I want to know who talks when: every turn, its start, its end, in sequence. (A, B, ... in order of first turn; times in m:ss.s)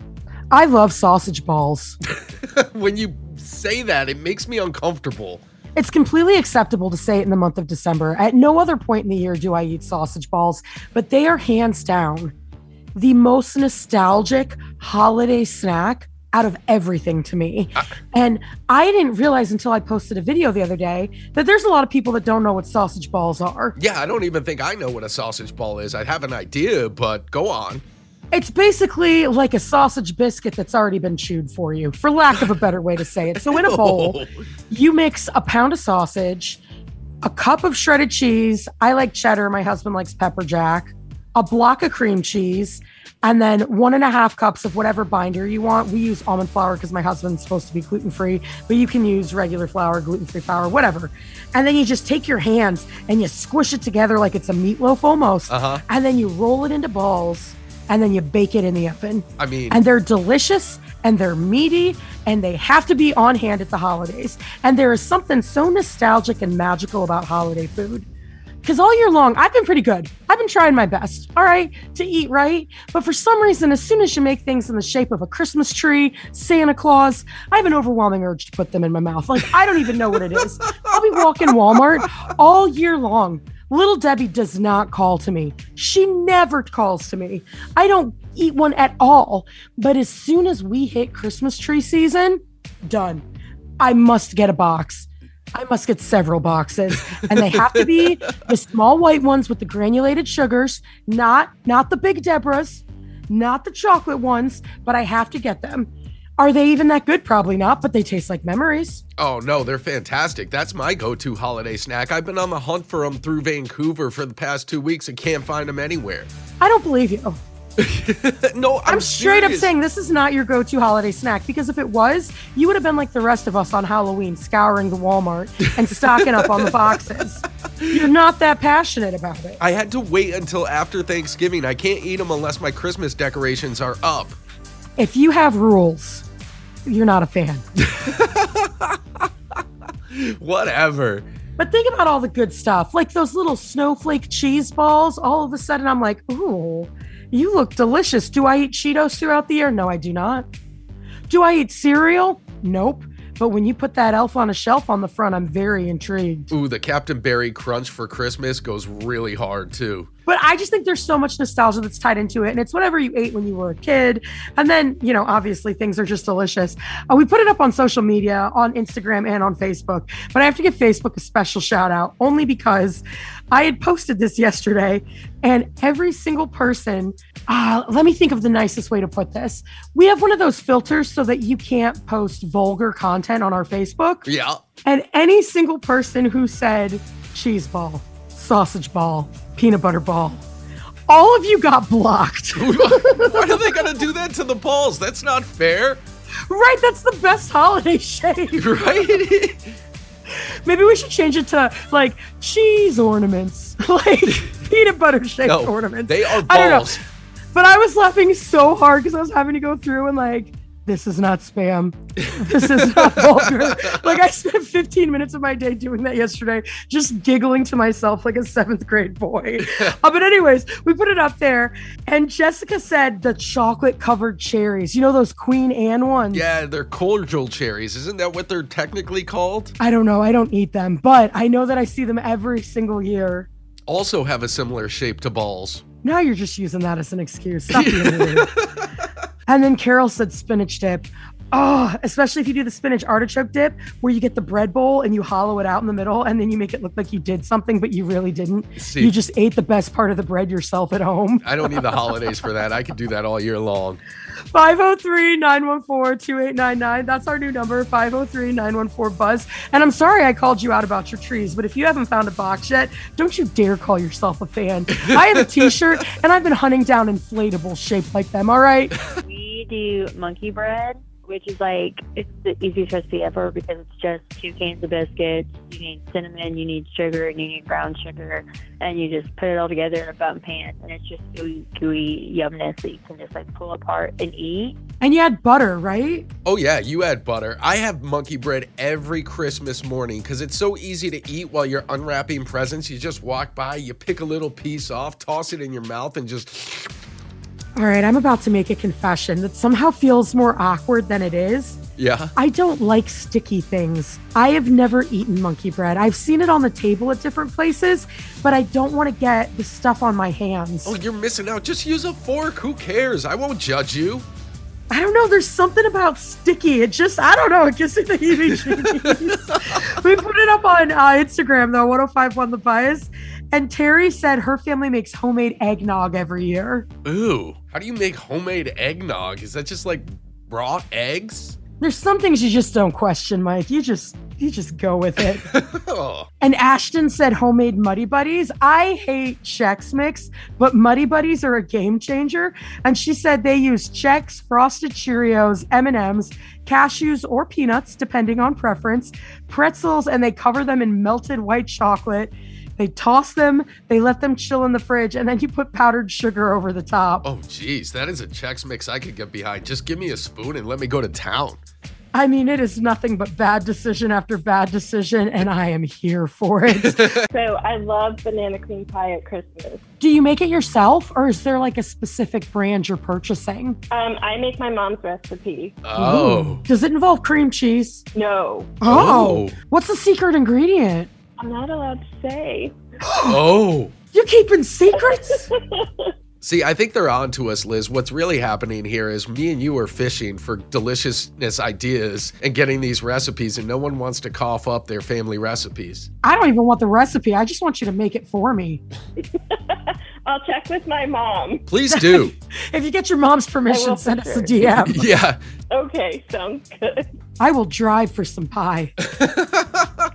0:00.5-0:02.0 A
0:02.5-0:05.4 B
0:05.7-0:12.3 A
0:12.9-0:23.7 A
0:23.8-0:27.8 B
0:28.3-0:36.6 A
0:33.4-0:34.3 B
0:37.2-1:08.0 A
0:55.5-0:55.8 B
0:59.4-0:59.8 B
1:08.6-1:33.2 A
1:33.8-1:49.0 A
1:37.0-1:38.0 B
1:49.2-1:56.3 B
1:56.6-1:57.4 A
1:57.8-1:59.7 B
1:58.8-2:09.6 A
2:09.6-2:14.4 B
2:15.0-2:16.2 A
2:16.8-2:17.6 A
2:17.9-2:19.2 B
2:20.1-2:21.3 B
2:21.6-2:30.5 A
2:31.3-2:36.5 A
2:36.5-2:40.1 B
2:40.2-3:04.2 A
3:04.2-3:04.6 B
3:04.8-3:10.4 A
3:11.1-3:13.5 A
3:12.5-3:16.0 B
3:16.5-3:18.7 A
3:18.6-3:19.7 B
3:20.3-3:27.0 A
3:25.4-3:27.0 B
3:27.5-3:46.5 A
3:32.2-3:33.8 B
3:39.6-3:39.9 B
3:46.3-3:49.7 B
3:49.8-3:53.5 A
3:53.9-3:55.8 B
3:56.0-3:58.5 A
3:57.7-3:58.8 B
3:59.5-4:12.1 A
4:08.8-4:09.1 B
4:11.4-4:14.0 B
4:14.5-4:29.0 A
4:29.2-4:44.8 C
4:45.0-4:46.3 A
4:46.4-4:56.9 B
4:57.8-5:01.8 A
5:02.0-5:02.3 B
5:02.4-5:10.9 A
5:10.8-5:14.2 B
5:14.9-5:26.9 A
5:18.5-5:19.3 B
5:27.0-5:31.6 B
5:31.8-5:35.5 A
5:35.4-5:36.3 B
5:36.4-5:57.2 A
5:57.2-6:01.6 B
6:02.1-6:07.2 A
6:07.2-6:09.8 D
6:10.0-6:13.8 A
6:13.9-6:15.8 D
6:15.8-6:16.6 B
6:16.0-6:18.0 A
6:18.1-6:18.8 D
6:18.8-6:21.1 A
6:18.8-6:19.6 B
6:21.4-6:22.8 D
6:23.0-6:23.5 A
6:23.2-6:23.9 B
6:24.1-6:25.5 A
6:25.6-6:26.0 D
6:26.4-6:36.1 B
6:36.2-6:38.8 A
6:39.2-6:41.6 D
6:41.7-6:42.3 B
6:41.9-6:45.1 A
6:43.7-6:44.7 D
6:44.8-6:45.4 B
6:45.7-6:47.1 D
6:47.4-6:48.9 A
6:49.2-6:49.9 B